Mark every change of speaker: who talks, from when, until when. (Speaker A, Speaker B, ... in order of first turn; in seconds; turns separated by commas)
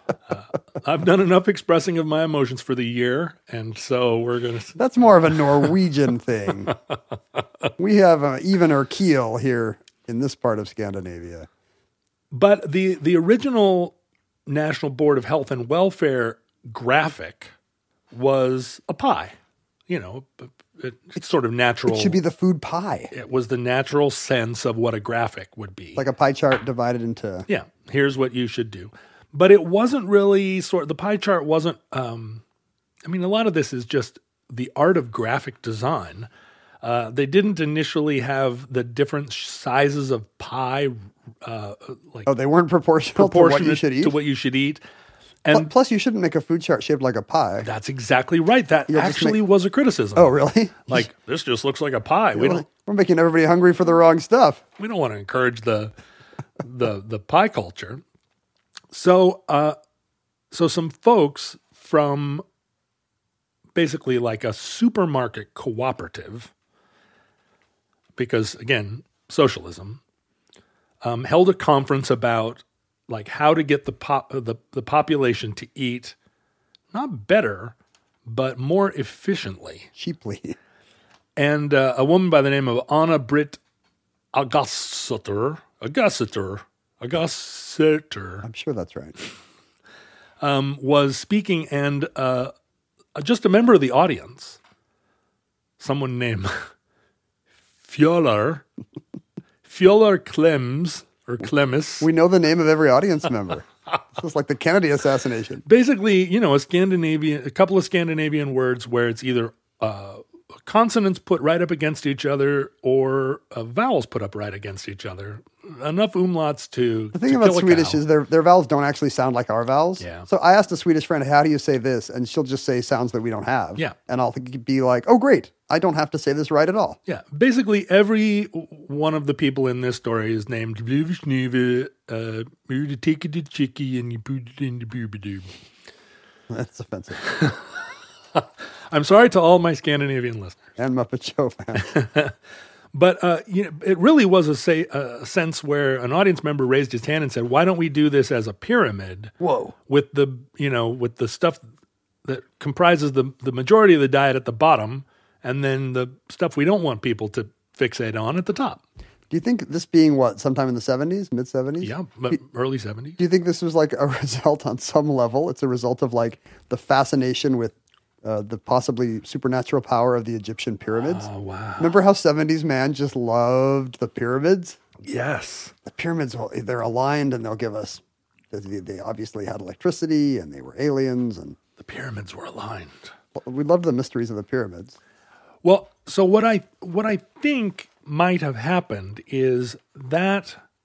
Speaker A: 0.3-4.8, Speaker B: 4.8-6.7, Speaker B: 7.8-11.5, Speaker A: 12.3-13.9, Speaker A: 14.5-17.5, Speaker A: 18.1-19.3, Speaker A: 19.9-22.2, Speaker B: 21.9-23.1, Speaker A: 23.1-26.0, Speaker B: 25.9-27.5, Speaker A: 27.5-32.4, Speaker A: 33.0-36.3, Speaker A: 36.8-42.3, Speaker B: 42.2-44.1, Speaker A: 43.1-44.8, Speaker A: 45.4-45.7, Speaker B: 45.5-47.7, Speaker A: 47.6-52.6, Speaker B: 48.9-49.4, Speaker B: 50.1-51.1, Speaker B: 52.3-54.6, Speaker A: 54.8-55.9, Speaker A: 56.6-58.0, Speaker A: 58.9-59.8, Speaker A: 60.5-62.4, Speaker A: 63.7-66.5, Speaker A: 68.2-70.0, Speaker A: 71.0-76.2, Speaker A: 76.9-77.7, Speaker A: 78.2-79.9, Speaker B: 80.0-80.6, Speaker A: 81.4-83.6, Speaker A: 84.3-88.5, Speaker B: 88.4-89.2, Speaker A: 90.4-92.5, Speaker A: 93.1-94.6, Speaker A: 95.8-96.6, Speaker A: 97.8-98.6, Speaker A: 99.6-102.1, Speaker B: 102.0-105.6, Speaker A: 105.6-118.0, Speaker B: 117.1-127.0, Speaker A: 120.0-120.3, Speaker A: 127.1-135.5, Speaker B: 136.5-137.2, Speaker A: 137.2-137.6, Speaker A: 138.3-140.7, Speaker B: 140.8-141.9, Speaker A: 141.8-142.3, Speaker A: 142.9-149.3, Speaker B: 149.4-149.7, Speaker A: 149.9-151.6, Speaker A: 152.2-158.8, Speaker B: 159.3-162.3, Speaker A: 161.8-163.2, Speaker B: 163.2-171.3, Speaker A: 171.0-172.0, Speaker B: 171.8-174.8, Speaker A: 175.0-175.7, Speaker B: 175.8-181.6, Speaker A: 181.8-183.1, Speaker B: 183.3-185.0, Speaker A: 185.6-190.6